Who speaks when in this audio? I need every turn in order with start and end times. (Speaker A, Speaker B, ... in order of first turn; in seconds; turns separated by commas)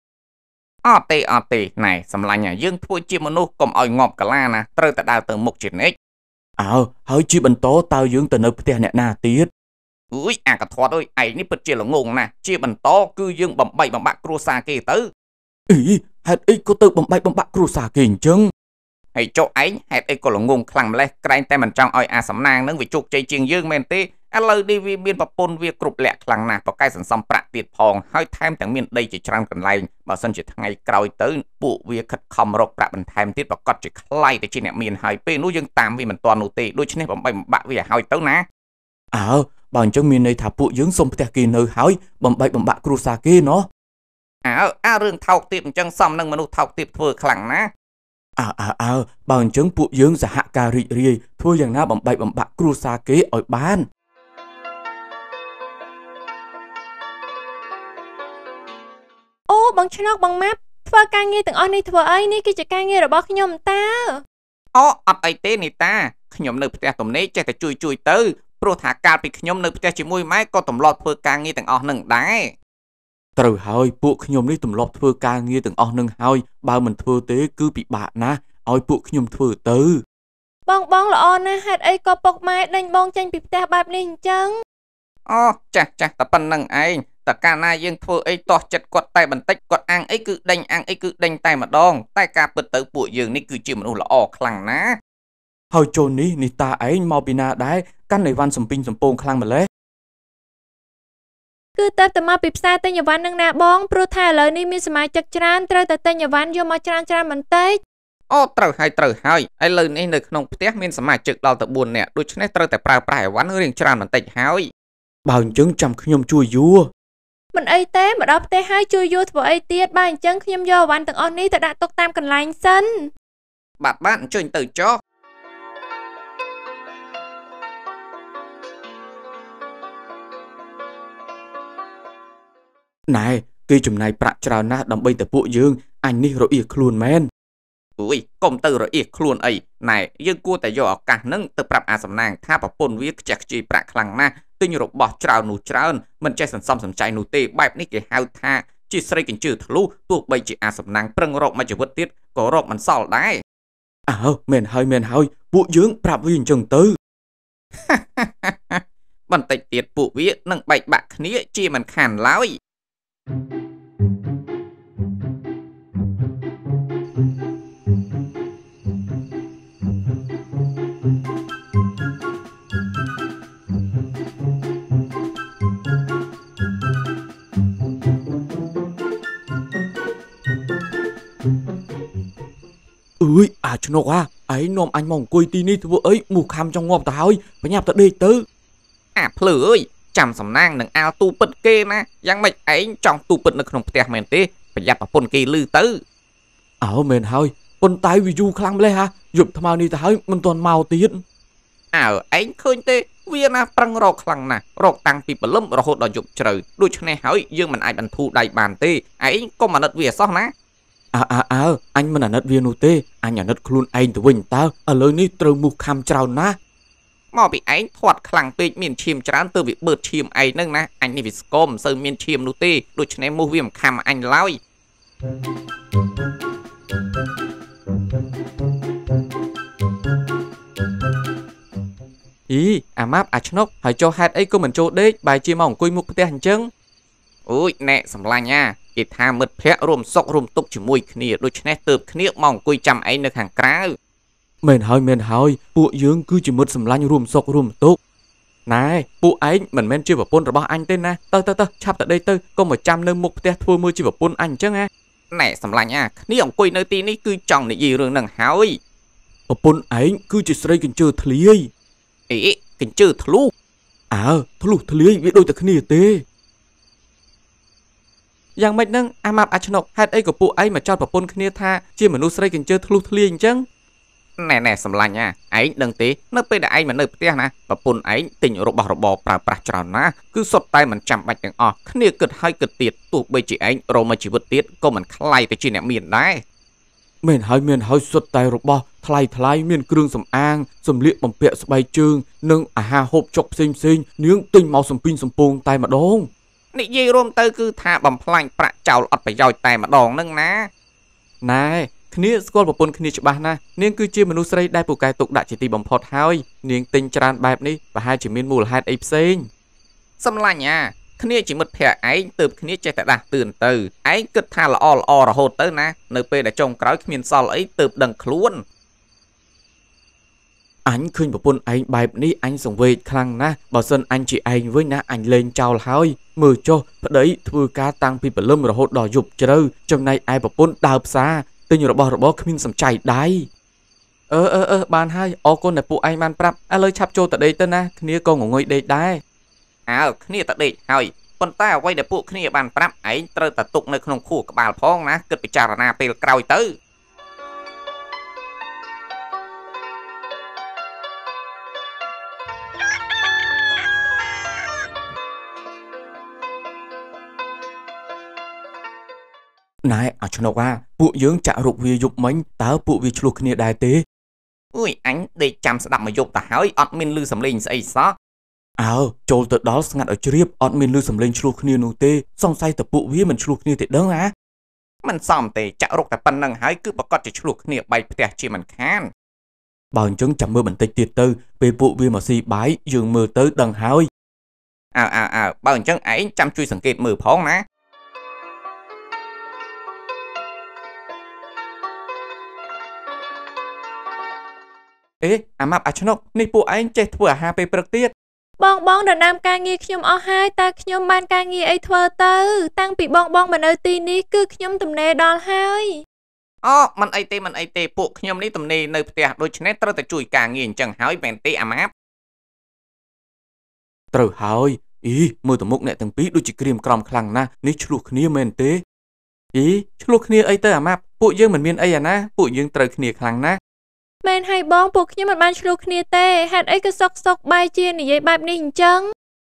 Speaker A: 0.8-6.0, Speaker B: 6.6-9.5, Speaker A: 10.1-15.1, Speaker B: 15.7-18.5, Speaker A: 19.1-38.5, Speaker B: 39.1-43.7, Speaker A: 44.5-47.7, Speaker B: 48.4-53.9, Speaker C: 59.5-64.2, Speaker A: 64.7-72.5, Speaker B: 73.4-80.0, Speaker C: 80.7-84.6, Speaker A: 85.3-95.0, Speaker B: 95.7-99.7, Speaker C: 101.8-107.8, Speaker A: 108.3-114.7, Speaker B: 115.3-116.9, Speaker C: 117.5-123.1, Speaker A: 123.8-125.0, Speaker B: 133.1-137.3, Speaker A: 138.0-153.4, Speaker B: 154.1-157.0, Speaker A: 157.8-162.6, Speaker B: 183.2-188.4, Speaker A: 189.2-196.0, Speaker B: 196.8-201.2, Speaker A: 201.9-210.5, Speaker B: 211.1-216.6, Speaker A: 217.3-224.6, Speaker B: 232.5-236.7, Speaker A: 237.5-243.9, Speaker B: 244.6-248.0, Speaker B: 248.7-254.9, Speaker A: 255.3-258.8, Speaker B: 259.5-261.7, Speaker A: 262.3-263.5, Speaker B: 264.1-266.2, Speaker B: 268.6-273.6, Speaker A: 274.4-286.4, Speaker B: 287.2-296.3, Speaker A: 296.7-300.7, Speaker B: 301.4-309.5, Speaker A: 310.2-318.6, Speaker B: 320.9-333.5, Speaker B: 334.3-339.2, Speaker A: 339.9-346.7, Speaker B: 359.8-364.0, Speaker A: 364.7-368.1, Speaker B: 368.8-374.3, Speaker A: 375.0-379.1, Speaker B: 379.9-384.1, Speaker A: 384.9-387.6, Speaker B: 395.2-398.1, Speaker C: 398.6-406.0, Speaker A: 406.6-411.9, Speaker B: 414.1-418.8, Speaker B: 419.5-423.6, Speaker C: 424.2-429.1